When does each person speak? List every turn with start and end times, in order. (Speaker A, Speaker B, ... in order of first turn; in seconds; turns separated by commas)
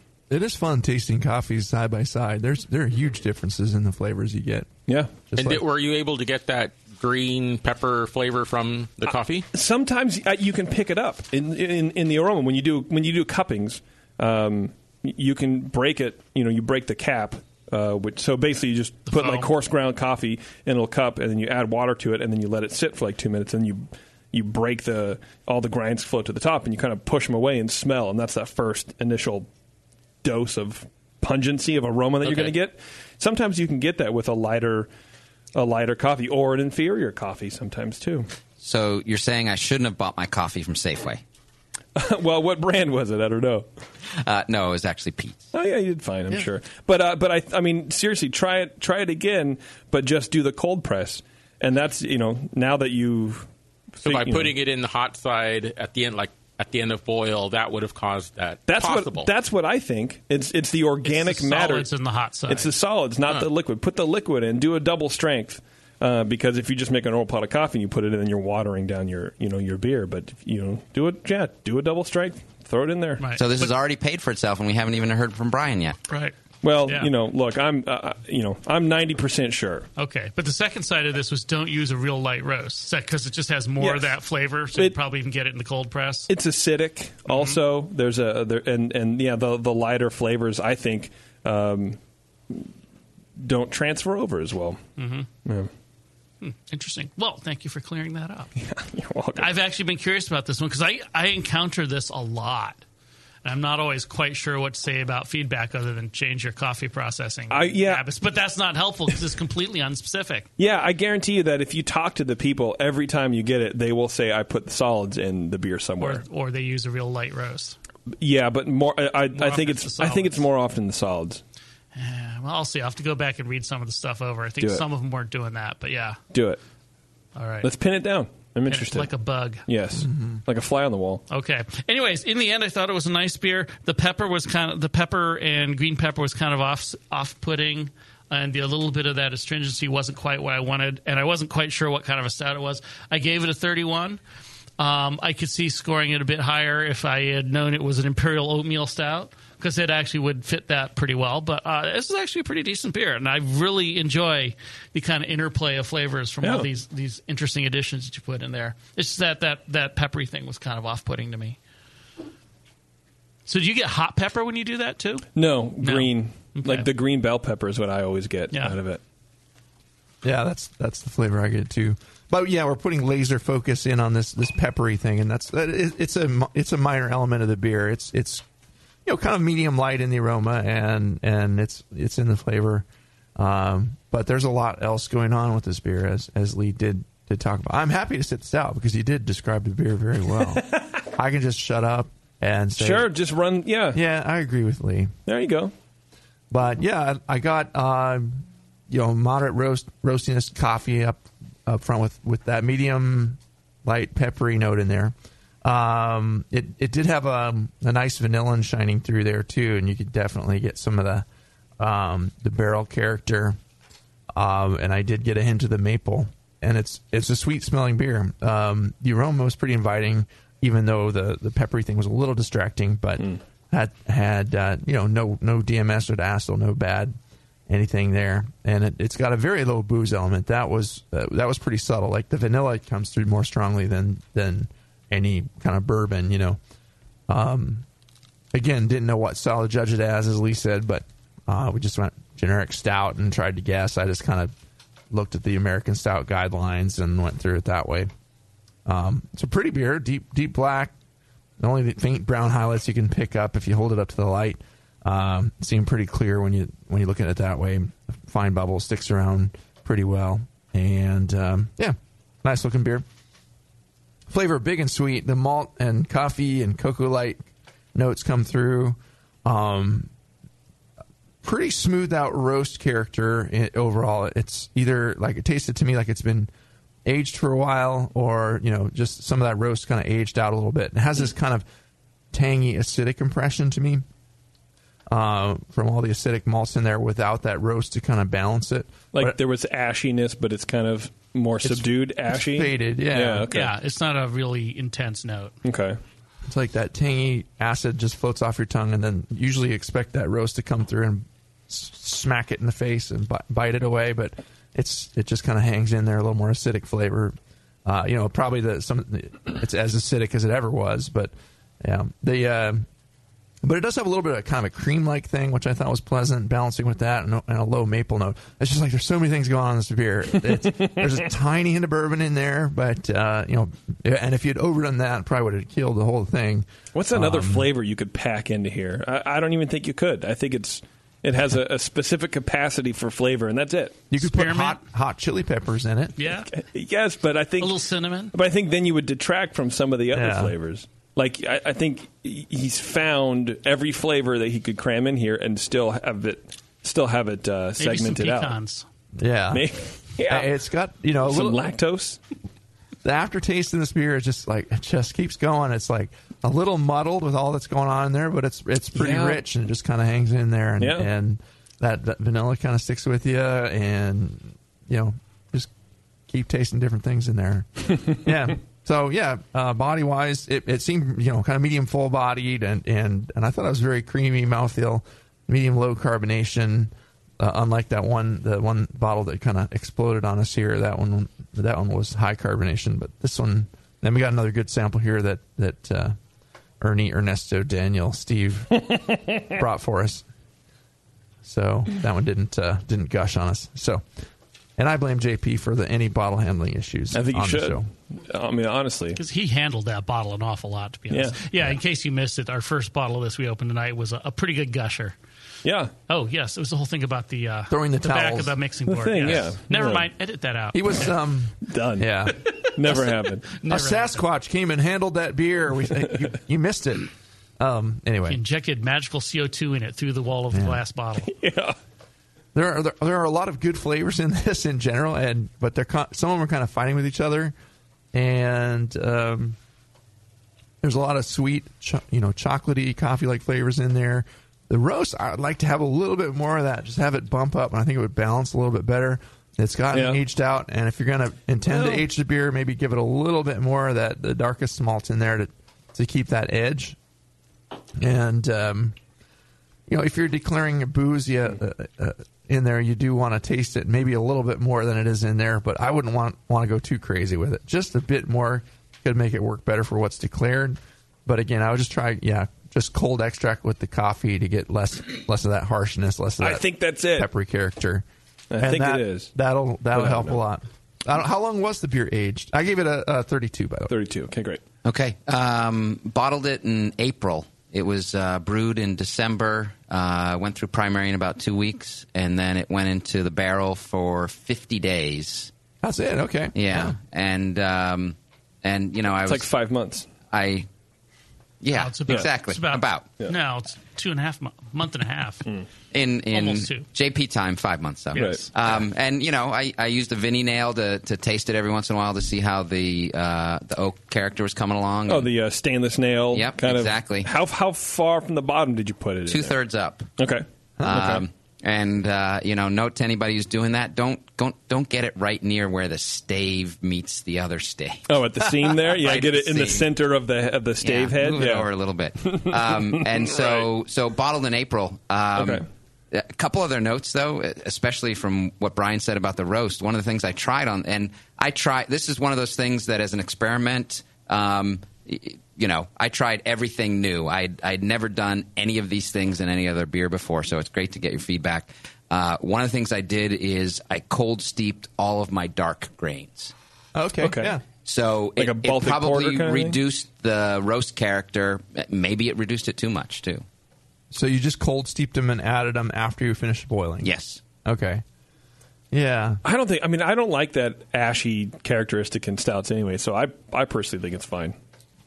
Speaker A: 0.3-4.8, Speaker B: 4.9-5.2, Speaker A: 5.3-5.6, Speaker C: 5.3-9.4, Speaker B: 9.0-29.5, Speaker D: 19.1-19.5, Speaker B: 30.2-34.9, Speaker C: 32.2-32.5, Speaker B: 35.5-38.3, Speaker E: 38.6-41.2, Speaker B: 41.9-43.7, Speaker E: 44.2-45.5, Speaker B: 45.5-53.5, Speaker B: 54.0-54.5, Speaker C: 54.0-59.3, Speaker B: 58.6-61.9, Speaker D: 61.0-62.7, Speaker B: 62.5-73.3, Speaker D: 73.2-73.7, Speaker E: 73.3-76.0, Speaker D: 76.1-77.1, Speaker B: 76.6-79.9, Speaker D: 80.0-86.3, Speaker B: 83.8-84.2, Speaker B: 86.3-92.0, Speaker D: 87.3-87.6, Speaker B: 93.4-94.8, Speaker D: 95.0-95.3, Speaker B: 95.4-95.7, Speaker D: 96.4-98.5, Speaker B: 98.6-99.5, Speaker D: 99.3-102.8, Speaker D: 103.4-110.5, Speaker B: 107.5-108.1, Speaker B: 110.6-116.2, Speaker D: 116.0-117.8, Speaker B: 118.2-121.4, Speaker D: 119.3-120.5, Speaker D: 121.9-126.2, Speaker B: 124.6-124.8, Speaker B: 126.3-126.6, Speaker D: 127.3-127.7, Speaker B: 127.6-129.1, Speaker D: 128.7-129.7, Speaker B: 129.7-131.2, Speaker A: 130.1-130.4, Speaker D: 131.3-144.2, Speaker D: 144.8-161.6, Speaker B: 156.4-156.7, Speaker D: 163.5-165.3, Speaker B: 165.3-169.0, Speaker D: 165.8-166.9, Speaker A: 170.2-178.4, Speaker A: 179.1-182.8, Speaker A: 183.4-193.1, Speaker B: 192.8-194.0, Speaker A: 193.9-195.2, Speaker B: 195.2-195.7, Speaker A: 196.5-211.2, Speaker A: 211.8-213.6, Speaker A: 214.3-227.2, Speaker A: 227.7-236.6, Speaker A: 237.3-237.8, Speaker A: 238.5-244.5, Speaker A: 245.1-248.1, Speaker A: 248.8-250.9, Speaker A: 251.6-263.0, Speaker A: 264.3-270.1, Speaker A: 271.4-276.5, Speaker A: 277.0-281.6, Speaker A: 282.3-284.0, Speaker A: 285.1-289.4, Speaker B: 289.1-293.7, Speaker A: 291.6-293.5, Speaker D: 293.5-295.5, Speaker B: 295.6-296.0, Speaker A: 296.5-312.8, Speaker A: 313.6-327.7, Speaker B: 326.9-334.0, Speaker A: 334.1-336.1, Speaker D: 334.2-334.8, Speaker D: 336.2-336.5, Speaker B: 336.5-337.8, Speaker D: 337.6-338.3, Speaker B: 338.3-348.6, Speaker A: 340.1-340.5, Speaker D: 347.8-348.8, Speaker A: 349.2-349.6, Speaker B: 349.5-350.5, Speaker A: 350.2-351.6, Speaker B: 351.2-352.2, Speaker A: 353.0-365.7, Speaker B: 358.9-359.4, Speaker B: 360.8-361.1, Speaker A: 366.3-386.2, Speaker A: 386.8-390.2, Speaker A: 391.4-394.0, Speaker A: 394.8-397.9, Speaker B: 397.1-399.2, Speaker D: 399.1-405.1, Speaker B: 401.1-401.4, Speaker B: 405.6-405.9, Speaker D: 406.1-411.1, Speaker A: 407.7-408.6, Speaker B: 408.9-410.1, Speaker A: 410.7-413.0, Speaker B: 411.6-412.2, Speaker B: 412.7-413.5, Speaker D: 412.9-414.2, Speaker A: 413.6-418.4, Speaker D: 418.3-421.3, Speaker A: 420.5-420.8, Speaker B: 421.2-421.7, Speaker A: 422.5-427.5, Speaker A: 428.1-429.6, Speaker A: 430.8-447.0, Speaker B: 439.9-440.2, Speaker B: 441.7-442.1, Speaker A: 448.0-448.9, Speaker A: 449.9-468.0, Speaker B: 466.4-467.3, Speaker B: 468.5-469.3, Speaker A: 468.6-473.9, Speaker B: 469.9-470.4, Speaker B: 473.9-474.6, Speaker E: 474.8-485.5, Speaker A: 485.8-487.0, Speaker E: 486.5-489.5, Speaker B: 489.2-490.1, Speaker E: 490.3-490.7, Speaker E: 491.6-493.1, Speaker D: 491.7-495.4, Speaker E: 495.9-505.3, Speaker D: 496.3-496.9, Speaker D: 498.1-498.5, Speaker B: 498.1-498.5, Speaker B: 505.1-509.5, Speaker E: 506.3-507.3, Speaker E: 509.3-510.1, Speaker B: 510.2-511.2, Speaker A: 510.8-511.0, Speaker E: 510.8-518.0, Speaker B: 518.1-523.7, Speaker E: 518.9-519.9, Speaker E: 520.8-546.5, Speaker B: 525.4-525.6, Speaker A: 546.9-547.6, Speaker B: 547.2-547.5, Speaker E: 547.8-553.4, Speaker B: 548.4-549.8, Speaker A: 554.1-557.1, Speaker E: 557.0-557.4, Speaker A: 557.6-558.0, Speaker A: 558.9-559.4, Speaker B: 559.4-564.5